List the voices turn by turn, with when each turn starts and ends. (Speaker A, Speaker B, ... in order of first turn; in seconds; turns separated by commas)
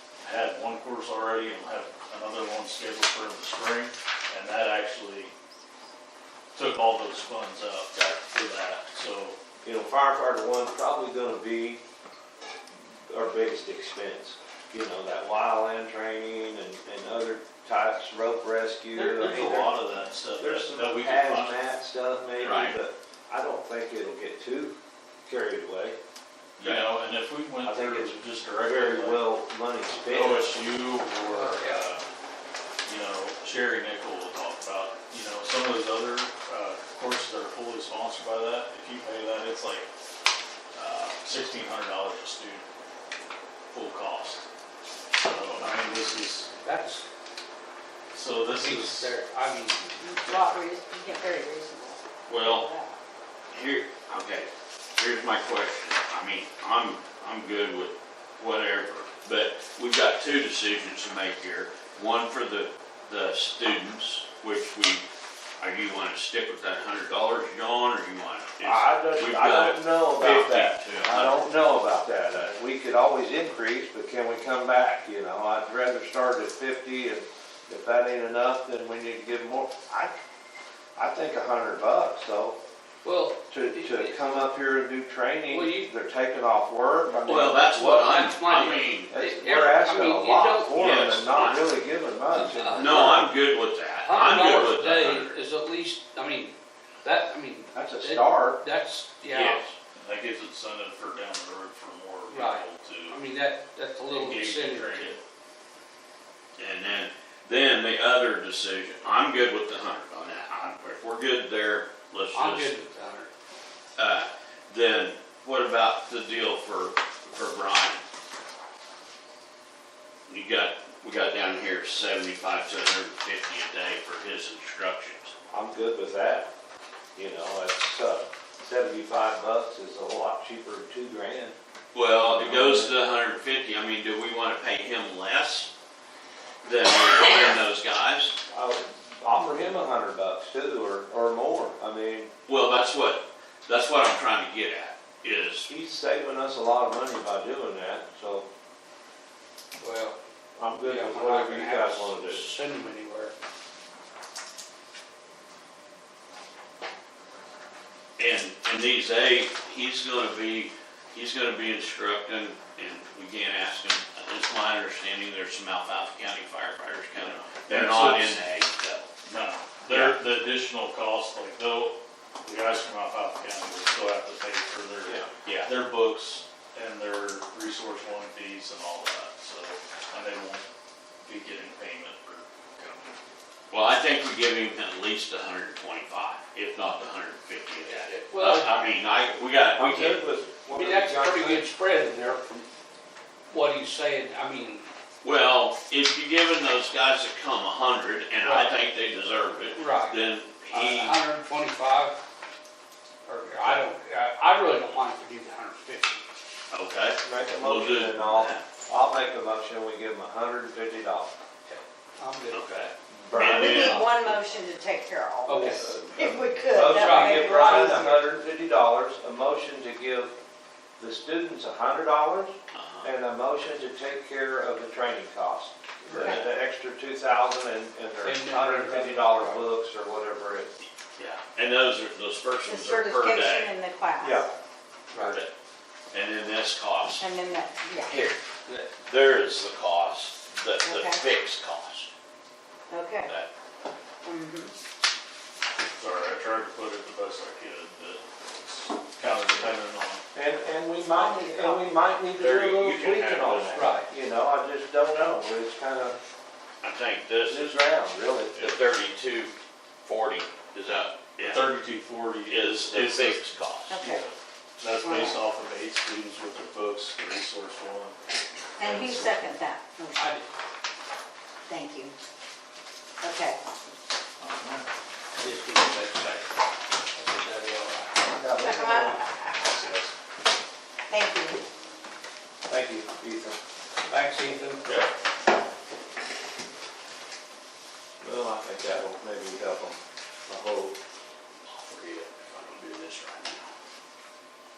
Speaker A: 0.2-5.3, Speaker A: 6.5-9.4, Speaker B: 7.9-8.2, Speaker C: 9.6-11.8, Speaker C: 13.1-19.8, Speaker A: 18.9-21.6, Speaker C: 20.4-26.0, Speaker B: 22.4-22.8, Speaker A: 26.6-29.2, Speaker B: 26.6-26.9, Speaker C: 27.6-30.6, Speaker A: 30.0-32.0, Speaker D: 31.1-31.9, Speaker A: 32.8-39.9, Speaker A: 40.7-42.7, Speaker A: 43.7-44.4, Speaker A: 45.1-46.5, Speaker D: 46.6-47.0, Speaker A: 48.1-49.1, Speaker D: 48.5-50.5, Speaker E: 49.8-52.9, Speaker B: 52.3-52.7, Speaker B: 53.5-65.0, Speaker B: 65.6-71.4, Speaker C: 68.6-80.1, Speaker C: 81.0-82.6, Speaker D: 83.0-84.2, Speaker C: 83.5-88.1, Speaker D: 85.5-85.9, Speaker B: 87.2-89.1, Speaker D: 87.8-90.8, Speaker C: 89.1-93.2, Speaker B: 90.7-91.7, Speaker D: 92.3-93.3, Speaker B: 92.7-95.4, Speaker D: 94.0-99.6, Speaker C: 97.7-98.6, Speaker B: 99.3-99.7, Speaker A: 99.9-103.2, Speaker D: 102.3-105.1, Speaker A: 104.1-105.2, Speaker B: 106.6-112.7, Speaker D: 112.3-113.3, Speaker B: 114.0-118.0, Speaker B: 120.3-125.3, Speaker C: 125.5-126.5, Speaker C: 127.1-131.5, Speaker B: 131.9-135.7, Speaker C: 132.1-132.9, Speaker B: 136.6-138.3, Speaker C: 138.5-142.3, Speaker B: 142.5-145.7, Speaker C: 145.7-148.4, Speaker D: 149.8-150.2, Speaker C: 150.6-152.5, Speaker D: 150.8-153.3, Speaker B: 158.2-169.1, Speaker A: 167.2-168.4, Speaker A: 169.3-180.7, Speaker B: 169.8-170.2, Speaker B: 175.4-175.7, Speaker A: 181.2-183.2, Speaker B: 183.7-190.2, Speaker D: 188.3-188.8, Speaker C: 189.7-191.7, Speaker D: 190.7-192.7, Speaker D: 193.5-194.9, Speaker B: 195.2-201.2, Speaker D: 198.4-198.8, Speaker D: 199.7-202.2, Speaker D: 203.2-206.2, Speaker B: 206.7-208.6, Speaker C: 207.2-211.3, Speaker D: 211.7-212.8, Speaker B: 212.5-214.3, Speaker C: 213.2-214.0, Speaker E: 213.3-218.1, Speaker D: 213.7-214.1, Speaker D: 215.5-215.8, Speaker C: 215.6-220.3, Speaker D: 216.8-218.3, Speaker C: 221.0-230.7, Speaker B: 222.7-223.1, Speaker E: 226.1-226.4, Speaker D: 226.1-226.4, Speaker D: 228.2-229.6, Speaker B: 231.2-233.8, Speaker E: 232.6-234.5, Speaker C: 234.2-234.5, Speaker B: 235.1-235.5, Speaker B: 236.1-237.3, Speaker E: 237.1-238.2, Speaker B: 238.0-242.1, Speaker E: 240.8-241.2, Speaker E: 242.9-243.3, Speaker E: 244.2-244.7, Speaker A: 246.0-250.2, Speaker C: 250.3-256.1, Speaker E: 251.1-252.1, Speaker B: 252.3-253.8, Speaker D: 253.7-254.1, Speaker B: 256.8-257.7, Speaker C: 257.5-258.7, Speaker B: 258.5-259.5, Speaker B: 260.0-261.7, Speaker A: 261.4-268.2, Speaker B: 262.5-263.9, Speaker E: 263.9-264.2, Speaker E: 265.0-265.4, Speaker E: 268.8-270.4, Speaker A: 268.8-269.3, Speaker D: 270.2-270.4, Speaker E: 271.6-272.1, Speaker E: 273.2-273.6, Speaker A: 274.4-274.8, Speaker D: 275.4-276.5, Speaker D: 277.1-279.2, Speaker C: 278.3-279.2, Speaker E: 278.6-279.7, Speaker A: 279.6-280.1, Speaker E: 281.1-281.6, Speaker C: 282.7-283.6, Speaker D: 284.1-284.9, Speaker C: 288.2-291.0, Speaker B: 291.7-293.7